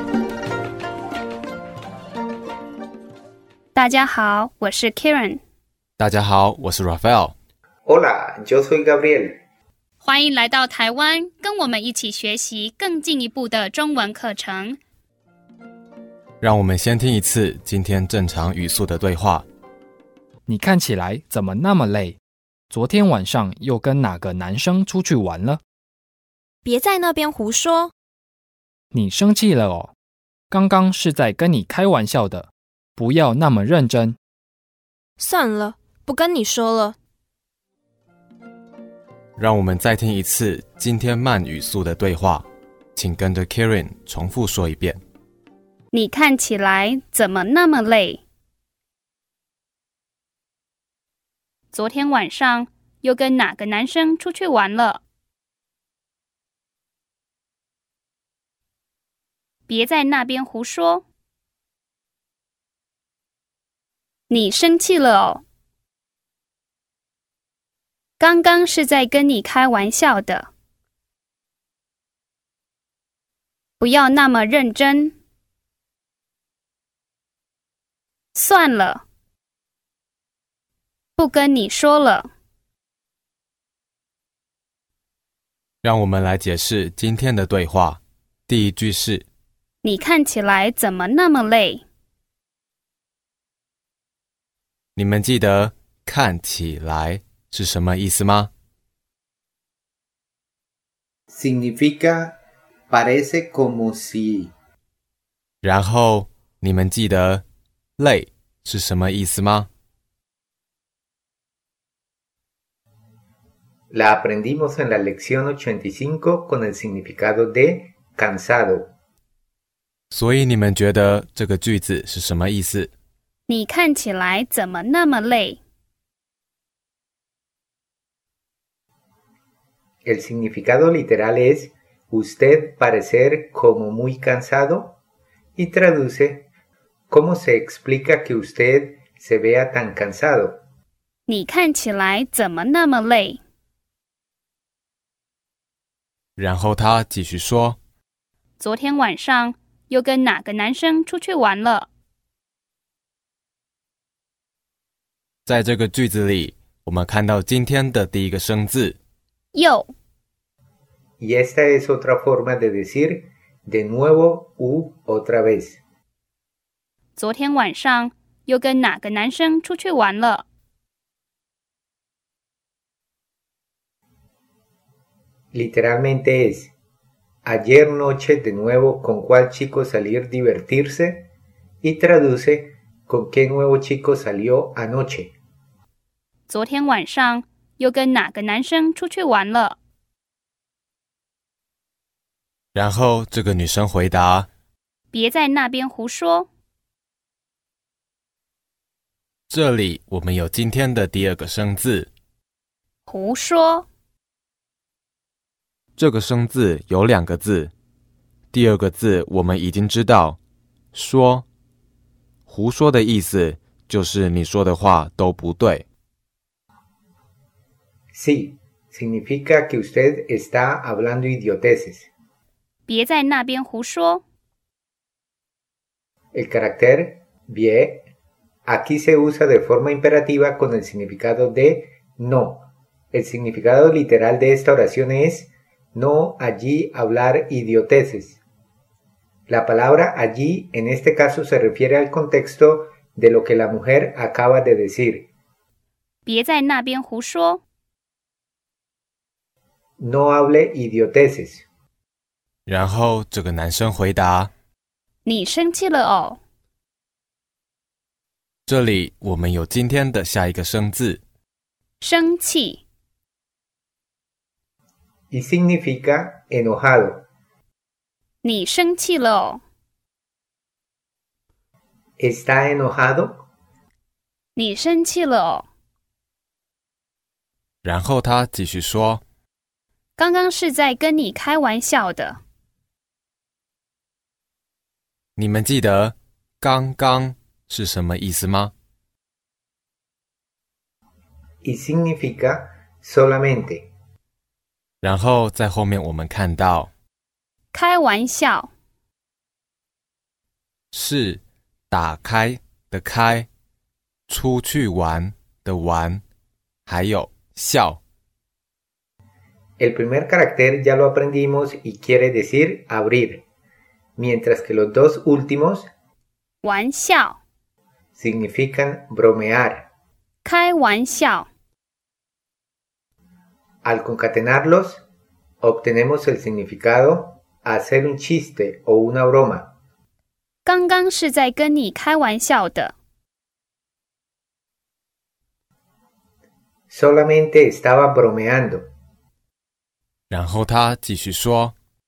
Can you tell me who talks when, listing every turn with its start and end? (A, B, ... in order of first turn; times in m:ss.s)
0:03.7-0:05.4 A
0:06.0-0:07.4 B
0:07.8-0:09.4 C
0:10.0-0:14.8 A
0:16.4-0:19.4 B
0:20.5-0:22.2 D
0:22.7-0:25.6 D
0:26.6-0:27.9 E
0:28.9-0:29.9 D
0:30.5-0:34.2 D
0:35.2-0:37.0 E
0:39.4-0:42.4 B
0:43.0-0:45.0 B
0:45.9-0:48.2 A
0:51.7-0:55.0 A
0:59.7-1:01.0 A
1:04.3-1:05.4 A
1:08.2-1:10.5 A
1:13.8-1:15.1 A
1:18.3-1:19.0 A
1:21.2-1:22.3 A
1:25.8-1:29.2 B
1:29.8-1:31.8 A
1:35.0-1:38.5 B
1:41.3-1:42.4 C
1:42.9-1:44.5 C
1:45.6-1:47.4 B
1:48.0-1:49.7 B
1:53.9-1:58.9 C
2:00.1-2:02.9 B
2:03.5-2:05.6 A
2:10.0-2:15.0 C
2:15.6-2:16.5 C
2:17.1-2:20.6 C
2:21.3-2:23.4 A
2:26.4-2:27.8 B
2:28.6-2:31.9 A
2:35.4-2:39.0 B
2:39.5-2:39.9 A
2:41.2-2:45.8 C
2:47.2-2:50.4 A
2:55.5-2:56.7 C
2:57.4-3:01.3 C
3:01.8-3:05.3 C
3:06.5-3:09.8 A
3:12.7-3:14.5 B
3:15.1-3:16.5 A
3:19.5-3:22.1 B
3:23.1-3:23.9 A
3:26.0-3:27.7 B
3:28.5-3:30.4 B
3:30.9-3:31.4 B
3:32.5-3:35.8 B
3:38.1-3:42.1 C
3:42.8-3:44.2 A
3:46.3-3:48.0 C
3:48.6-3:58.4 C
3:59.5-4:05.3 C
4:06.2-4:07.6 A
4:10.0-4:11.6 C
4:12.7-4:14.5 B
4:15.2-4:16.4 A
4:18.7-4:21.2 B
4:22.0-4:22.8 A
4:25.3-4:27.2 C
4:28.4-4:29.6 A
4:32.2-4:33.4 C
4:34.6-4:35.7 A
4:37.8-4:39.2 B
4:40.2-4:42.4 A
4:45.4-4:48.7 B
4:51.6-4:53.9 C
4:55.0-4:56.9 B
4:57.7-4:58.7 A
5:00.9-5:03.5 B
5:04.3-5:06.2 B
5:06.9-5:08.0 B
5:09.8-5:13.4 C
5:14.2-5:15.9 C
5:16.6-5:17.4 A
5:18.2-5:19.9 C
5:20.4-5:21.5 A
5:23.8-5:25.0 C
5:25.6-5:29.7 C
5:30.6-5:32.9 A
5:36.9-5:38.8 C
5:40.3-5:41.7 B